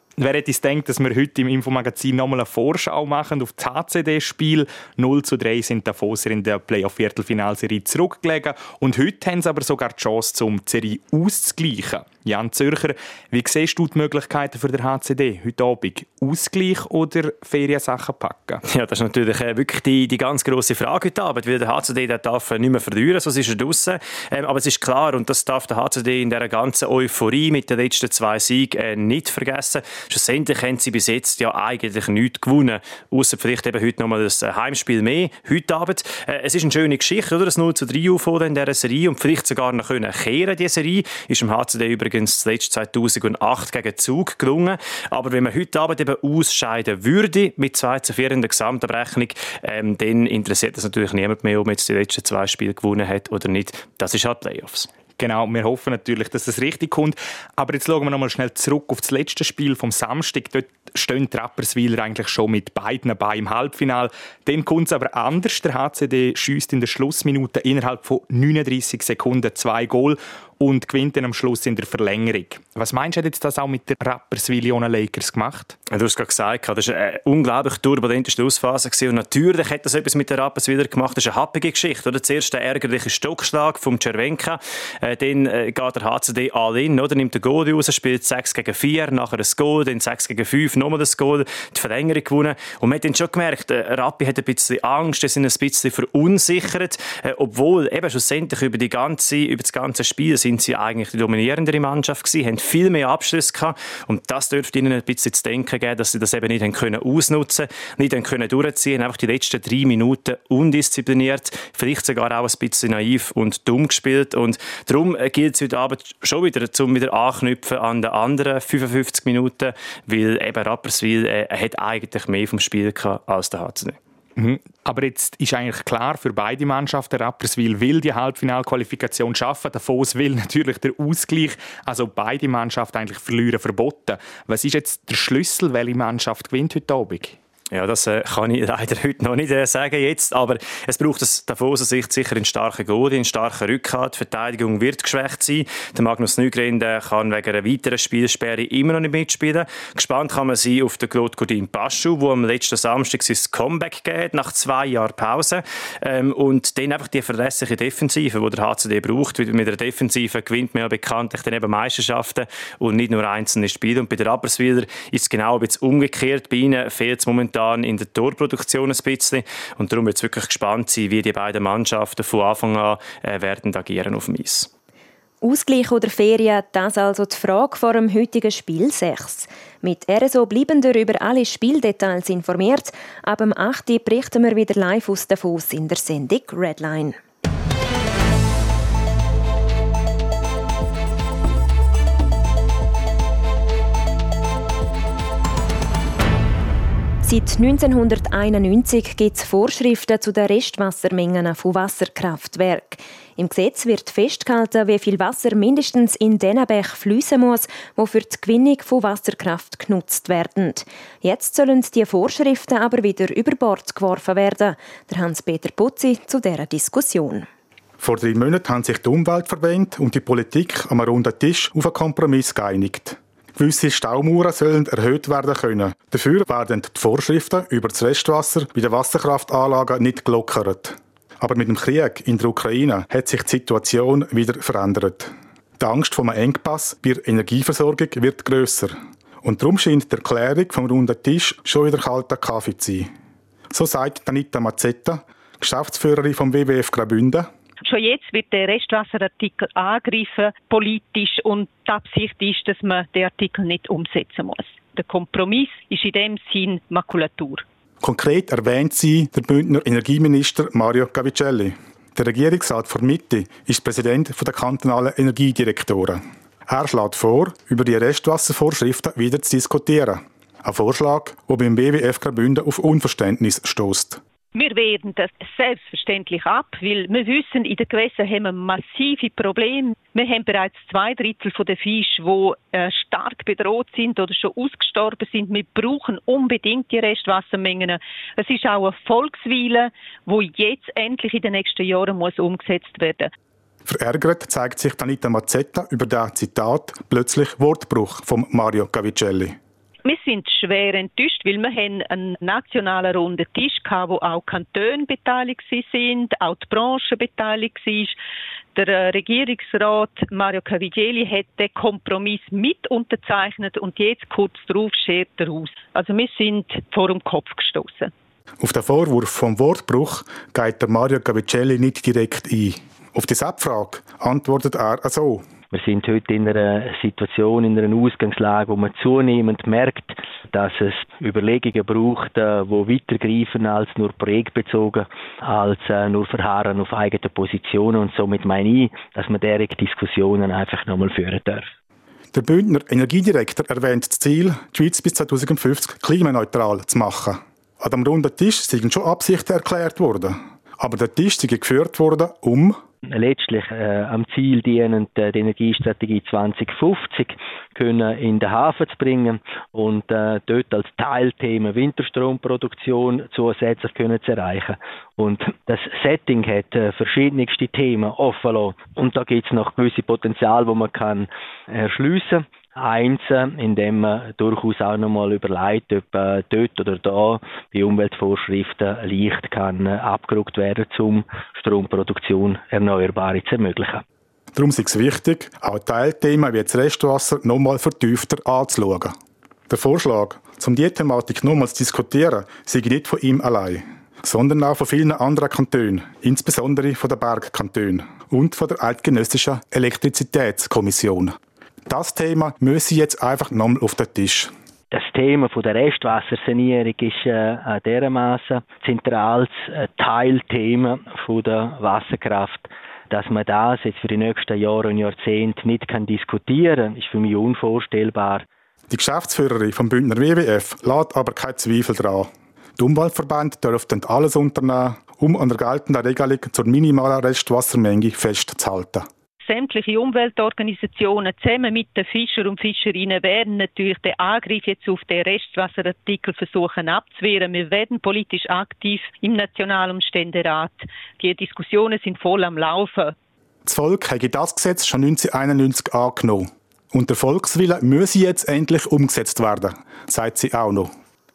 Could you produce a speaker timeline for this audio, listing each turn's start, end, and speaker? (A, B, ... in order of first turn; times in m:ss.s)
0:00.2-0:18.6 A
0:18.7-0:54.9 B
0:55.2-1:15.8 A
1:15.9-2:04.0 B
2:04.4-2:17.4 A
2:17.7-2:54.7 B
2:55.4-3:07.2 C
3:17.2-3:37.5 C
3:38.0-4:03.1 D
4:03.7-4:07.5 D
4:07.8-4:17.6 E
4:18.0-4:34.2 D
4:34.6-4:53.3 E
4:53.9-4:59.6 D
5:00.0-5:08.2 E
5:08.8-5:18.1 E
5:18.6-5:25.4 D
5:25.7-5:41.7 F
5:42.3-5:52.8 D
5:53.1-6:24.0 F
6:24.6-6:29.1 D
6:29.7-6:41.4 D
6:41.9-6:44.5 D
6:44.9-6:58.4 F
6:58.9-7:09.1 D
7:09.4-7:23.2 E
7:23.7-7:30.9 D